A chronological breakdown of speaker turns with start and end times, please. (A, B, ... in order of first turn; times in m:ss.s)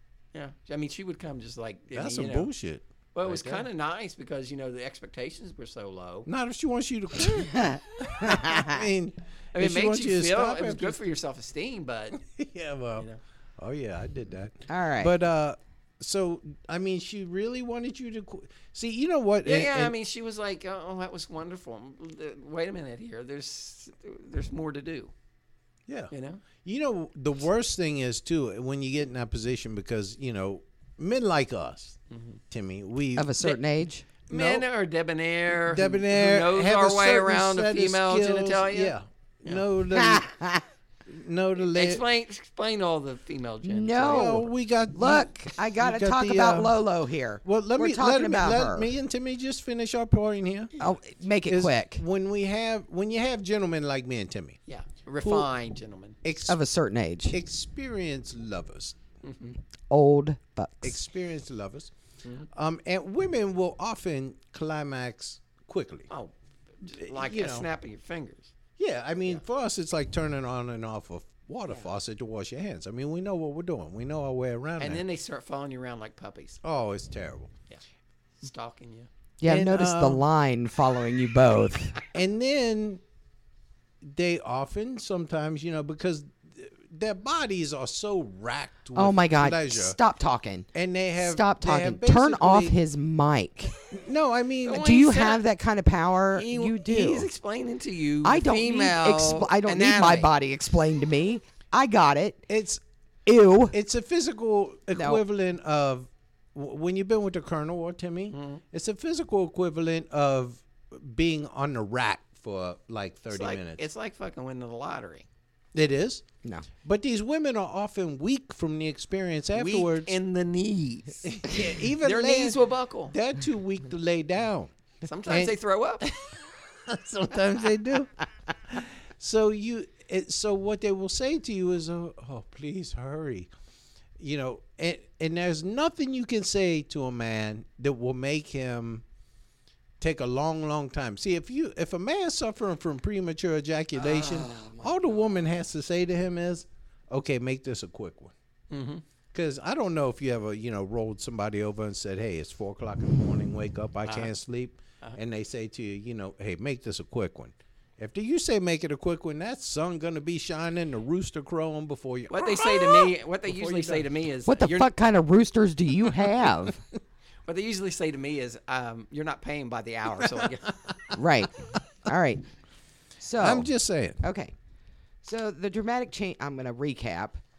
0:00.3-0:02.5 A
0:01.9-0:03.7 B
0:03.1-0:06.3 A
0:06.2-0:11.0 B
0:07.4-0:08.8 C
0:09.5-0:12.2 A
0:12.2-0:13.0 B
0:13.6-0:19.9 B
0:14.7-0:15.1 C
0:19.4-0:25.1 A
0:25.9-0:26.1 B
0:26.1-0:26.4 A
0:26.6-0:32.0 B
0:32.1-0:32.4 A
0:32.5-0:33.3 B
0:33.1-0:34.1 C
0:34.3-0:39.6 A
0:34.3-0:34.6 B
0:35.7-0:40.3 B
0:39.9-0:40.6 C
0:41.1-0:42.0 B
0:41.6-0:44.4 A
0:43.6-0:48.9 C
0:44.0-0:46.7 B
0:47.4-0:50.7 B
0:50.8-0:52.0 C
0:51.5-0:54.6 B
0:54.7-0:56.2 A
0:55.2-0:55.5 B
0:56.2-0:56.6 B
0:56.4-0:57.4 C
0:57.3-0:59.0 B
0:59.2-0:59.6 A
0:59.9-1:01.0 C
1:00.8-1:01.9 B
1:02.5-1:06.1 B
1:06.1-1:08.5 A
1:06.9-1:07.7 B
1:08.8-1:15.0 B
1:14.8-1:16.6 A
1:16.6-1:17.5 B
1:18.4-1:19.1 A
1:19.4-1:22.0 C
1:19.4-1:20.2 B
1:22.1-1:23.0 B
1:24.0-1:30.0 B
1:28.9-1:33.7 C
1:30.7-1:32.8 B
1:33.9-1:34.9 B
1:34.6-1:35.4 A
1:34.7-1:37.3 C
1:36.3-1:40.3 A
1:38.2-1:42.5 C
1:42.5-1:42.8 B
1:43.2-1:43.8 C
1:43.7-1:53.8 B
1:44.9-1:45.2 C
1:48.3-1:48.6 A
1:53.3-1:55.2 A
1:55.7-1:56.2 B
1:56.8-2:00.1 B
1:59.5-2:01.4 A
2:01.2-2:04.7 B
2:02.0-2:03.1 A
2:05.0-2:06.0 A
2:05.2-2:08.2 B
2:08.7-2:13.5 B
2:14.2-2:19.0 B
2:20.0-2:28.3 B
2:28.7-2:29.0 A
2:29.3-2:44.0 B
2:42.3-2:44.9 A
2:44.4-2:46.8 C
2:47.4-2:50.7 A
2:51.1-2:52.4 C
2:53.2-2:54.5 C
2:53.4-2:54.2 B
2:55.2-2:57.4 C